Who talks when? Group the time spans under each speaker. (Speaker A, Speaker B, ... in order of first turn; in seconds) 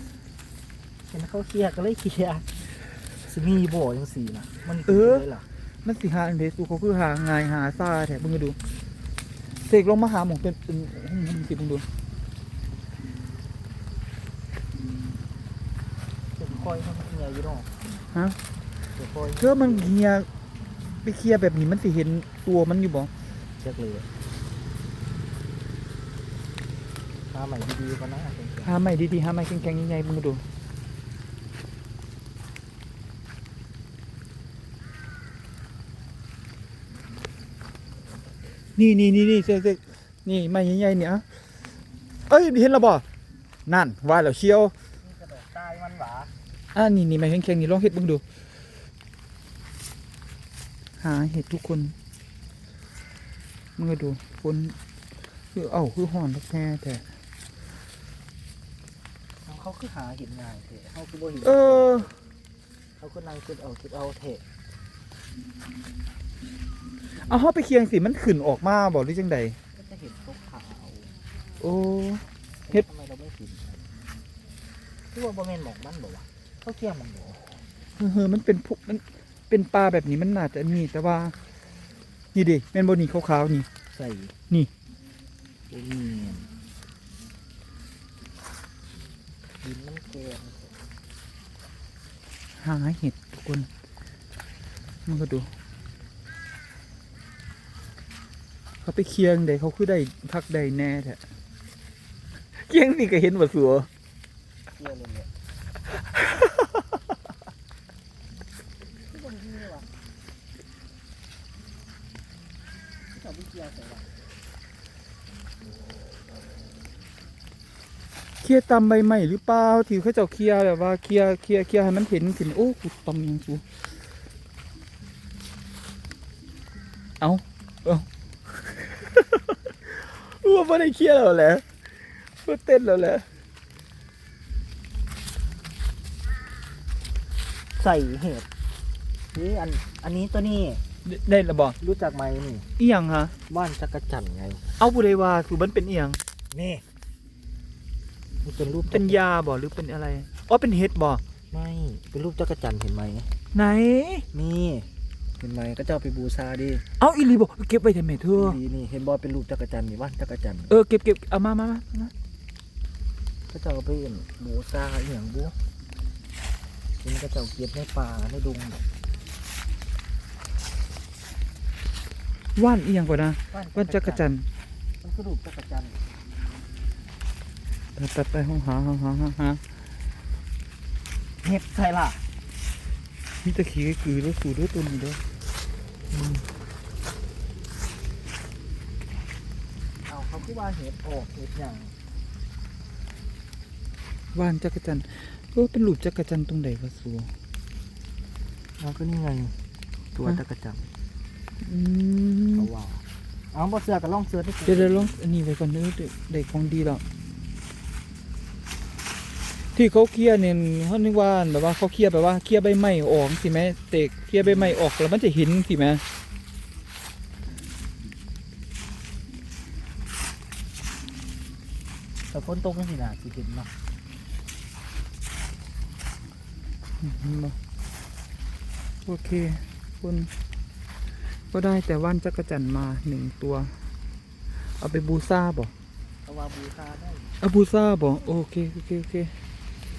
Speaker A: 1.1-5.5, 16.3-17.7, 18.9-19.9, 23.4-24.1, 27.3-28.8, 45.0-46.3, 59.4-62.1, 63.0-64.4, 69.7-71.1, 72.6-73.9, 75.1-77.6, 83.9-84.3, 85.7-86.5, 89.6-90.7, 104.7-105.3, 109.1-109.9, 113.1-114.1, 137.8-138.5, 139.3-140.8, 141.8-142.7, 143.5-144.8, 146.5-146.8, 148.4-149.2, 151.5-153.3, 154.3-154.9, 155.4-156.8, 158.3-160.7, 163.5-165.5, 167.0-168.8, 173.5-174.3, 175.0-176.1, 181.4-182.2, 190.1-191.9, 198.8-199.6, 200.1-200.9, 202.5-205.1, 214.4-214.8, 222.3-223.7, 236.2-237.3
Speaker B: 4.8-5.3, 5.8-8.6, 9.6-11.9, 18.1-18.4, 19.4-20.3, 21.0-23.1, 28.6-30.4, 38.7-41.2, 42.3-43.0, 43.6-44.7, 46.7-48.2, 51.0-51.9, 53.8-54.8, 55.5-57.0, 61.4-62.1, 67.2-69.6, 71.6-72.8, 78.0-81.3, 82.3-83.7, 92.6-93.7, 95.0-95.5, 98.8-101.2, 102.5-103.9, 118.4-123.6, 127.2-131.6, 132.4-133.2, 141.0-141.8, 142.8-143.3, 144.8-146.2, 148.9-151.2, 153.5-154.3, 157.0-158.6, 160.7-162.1, 172.6-174.5, 177.9-179.6, 183.4-185.2, 186.1-186.5, 194.3-197.3, 201.6-202.7, 204.7-207.0, 209.7-216.0, 227.0-227.6, 229.0-230.3, 231.2-233.8, 234.5-235.7, 237.4-239.3